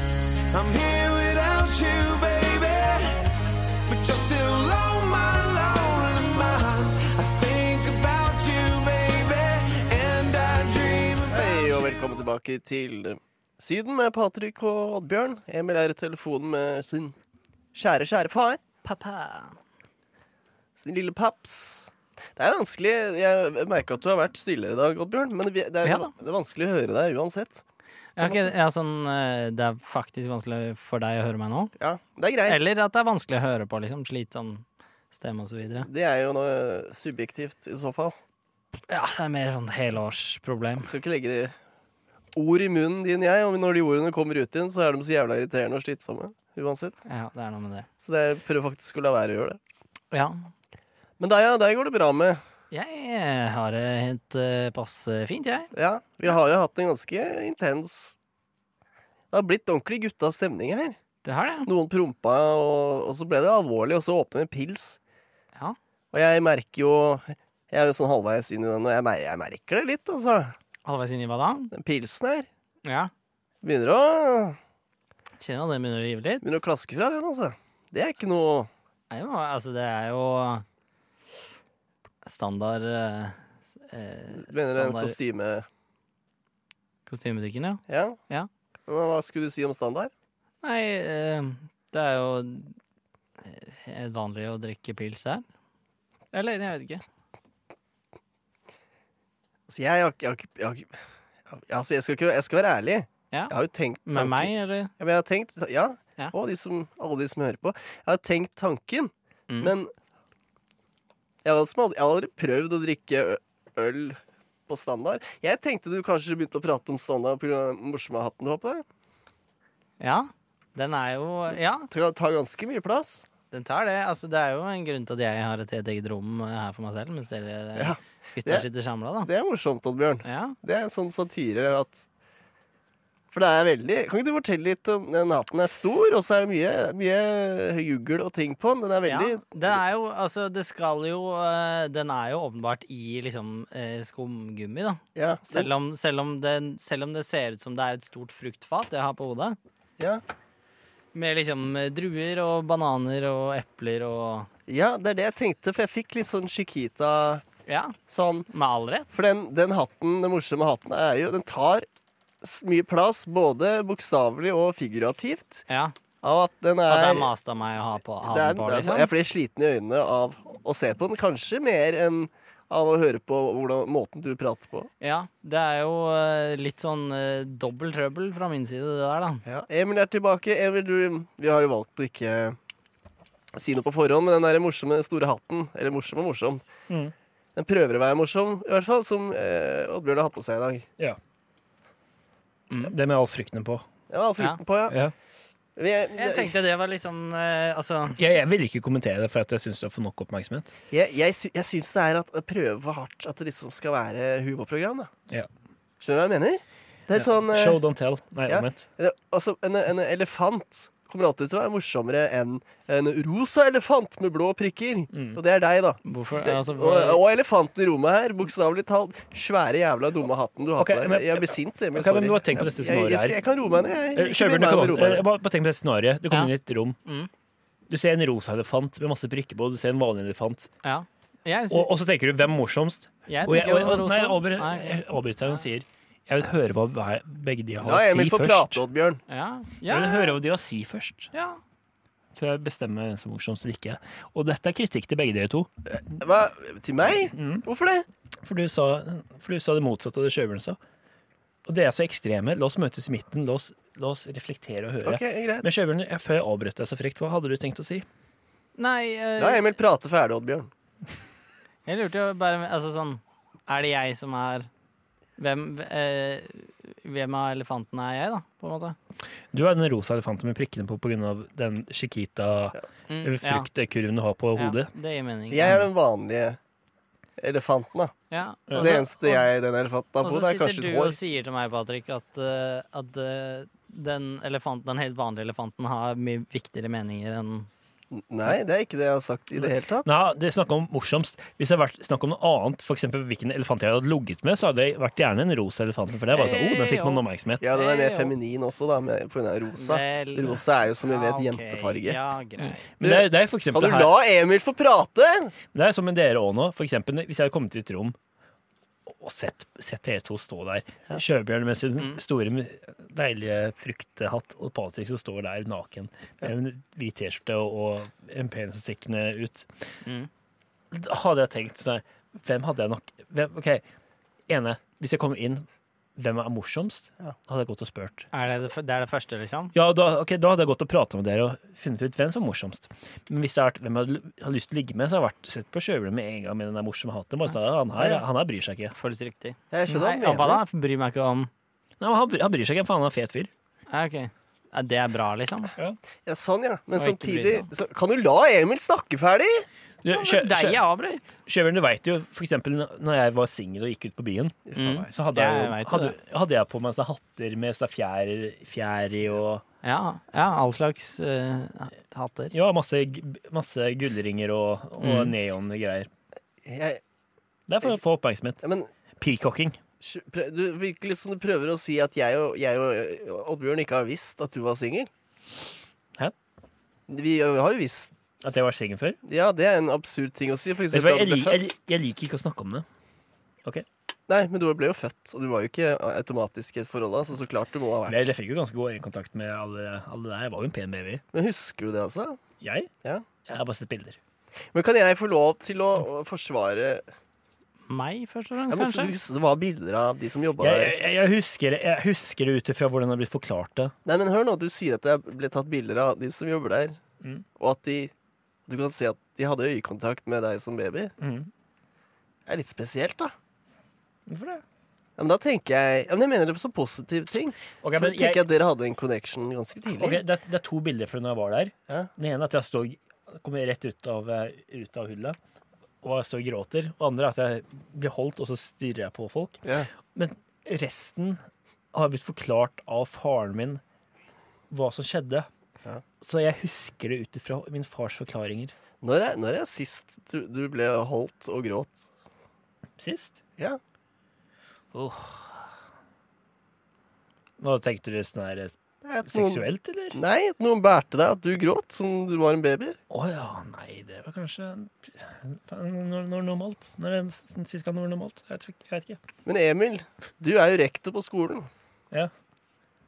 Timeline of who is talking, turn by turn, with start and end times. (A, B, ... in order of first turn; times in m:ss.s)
0:00.5-0:11.8 A
0:11.3-0:17.2 B
0:17.7-0:18.6 B
0:18.8-0:19.6 C
0:20.8-0:27.6 B
0:25.8-0:26.1 C
0:28.2-0:31.7 C
0:28.2-0:28.5 B
0:31.8-0:32.6 B
0:32.5-0:35.9 C
0:35.8-0:38.2 B
0:38.9-0:40.9 C
0:40.8-0:41.6 B
0:42.4-0:47.0 B
0:47.1-0:47.9 C
0:48.0-0:49.6 B
0:50.1-0:50.5 C
0:51.2-0:52.4 B
0:52.7-0:55.7 C
0:55.7-0:58.2 B
0:59.3-1:01.0 B
1:01.2-1:01.7 C
1:01.6-1:05.0 B
1:06.1-1:10.6 B
1:10.8-1:11.7 C
1:11.7-1:12.5 B
1:12.8-1:13.1 C
1:13.6-1:14.6 B
1:15.4-1:16.4 C
1:16.4-1:18.7 B
1:19.1-1:20.6 C
1:22.2-1:25.2 C
1:24.3-1:25.7 B
1:27.1-1:28.5 C
1:27.9-1:28.2 B
1:28.9-1:30.1 B
1:30.6-1:32.8 C
1:33.4-1:35.4 C
1:36.3-1:37.0 C
1:39.7-1:41.0 B
1:41.5-1:49.9 B
1:44.1-1:44.9 C
1:51.4-1:58.8 B
2:00.0-2:01.9 C
2:01.9-2:03.3 B
2:03.5-2:09.3 C
2:07.8-2:08.7 B
2:09.2-2:12.1 B
2:10.2-2:10.6 C
2:13.3-2:19.8 B
2:19.1-2:29.6 C
2:25.2-2:25.7 B
2:31.1-2:34.5 C
2:34.7-2:37.4 B
2:37.7-2:38.0 C
2:38.1-2:38.5 B
2:38.5-2:39.1 C
2:39.1-2:41.9 B
2:42.4-2:45.7 B
2:45.7-2:46.0 C
2:46.2-2:47.3 B
2:46.9-2:49.1 C
2:48.2-2:54.9 B
2:55.0-2:59.4 C
2:59.4-3:02.6 B
3:03.6-3:06.6 B
3:07.6-3:10.9 B
3:12.7-3:13.0 C
3:12.8-3:13.9 D
3:14.1-3:15.0 B
3:14.9-3:15.1 D
3:15.8-3:16.5 B
3:16.2-3:18.2 C
3:18.2-3:20.8 D
3:20.9-3:25.1 B
3:26.0-3:27.8 B
3:27.1-3:28.9 D
3:28.5-3:45.3 B
3:35.1-3:35.4 D
3:36.1-3:37.2 C
3:40.8-3:43.4 D
3:44.2-3:47.0 D
3:47.0-3:47.3 C
3:47.9-3:50.7 D
3:50.8-3:51.9 C
3:51.7-3:58.8 D
3:53.3-3:55.6 C
3:57.8-3:59.2 B
3:59.3-4:00.4 C
3:59.9-4:01.3 D
4:01.3-4:01.6 C
4:02.4-4:05.7 D
4:05.9-4:08.1 B
4:07.3-4:07.6 D
4:08.4-4:10.8 D
4:11.7-4:18.1 D
4:15.0-4:15.7 B
4:18.8-4:19.7 C
4:19.4-4:20.7 B
4:21.9-4:24.7 C
4:25.4-4:29.0 C
4:29.5-4:34.9 D
4:33.1-4:33.7 C
4:34.6-4:35.8 C
4:35.5-4:36.6 B
4:37.4-4:38.1 B
4:38.3-4:39.5 C
4:38.8-4:41.2 B
4:40.2-4:47.7 C
4:48.1-4:50.1 B
4:49.6-4:57.7 D
4:56.3-4:58.3 C
4:57.6-5:02.2 B
4:59.8-5:02.8 C
5:03.0-5:04.2 D
5:03.0-5:05.5 B
5:05.7-5:08.2 D
5:09.1-5:19.8 D
5:20.9-5:23.8 D
5:24.5-5:28.3 D
5:28.3-5:29.7 C
5:29.7-5:39.0 D
5:38.0-5:38.2 B
5:39.0-5:41.5 C
5:39.7-5:40.6 B
5:42.0-5:43.5 D
5:43.9-5:45.7 C
5:46.2-5:49.7 B
5:47.0-5:47.7 C
5:50.0-5:50.8 D
5:50.1-5:51.4 C
5:51.4-5:59.6 D
5:54.7-5:55.1 B
5:54.8-5:56.2 C
5:59.8-6:02.5 C
6:02.5-6:06.1 D
6:05.0-6:05.3 C
6:06.6-6:07.0 B
6:07.7-6:08.6 D
6:08.6-6:08.9 B
6:09.2-6:09.8 D
6:10.0-6:15.1 B
6:17.1-6:18.2 B
6:18.4-6:19.2 D
6:19.2-6:21.7 B
6:20.9-6:22.8 D
6:24.3-6:28.2 B
6:28.1-6:31.2 D
6:31.3-6:32.4 B
6:32.6-6:32.9 D
6:33.5-6:34.2 D
6:34.7-6:37.1 B
6:37.9-6:39.1 C
6:38.7-6:41.0 B
6:40.6-6:44.0 D
6:44.1-6:47.0 B
6:47.6-6:48.1 B
6:48.7-6:51.1 B
6:51.2-6:51.5 D
6:52.5-6:53.4 B
6:54.3-6:54.6 D
6:55.2-7:00.2 B
6:57.8-6:58.4 D
6:59.9-7:05.4 D
7:06.0-7:09.6 D
7:09.6-7:09.9 B
7:10.1-7:11.4 D
7:11.9-7:13.8 D
7:14.7-7:15.5 D
7:16.2-7:18.7 D
7:19.0-7:22.0 B
7:23.0-7:23.4 D
7:24.9-7:25.7 D
7:27.6-7:28.8 D
7:29.0-7:33.0 B
7:29.3-7:30.2 D
7:33.1-7:39.2 D
7:39.4-7:41.7 B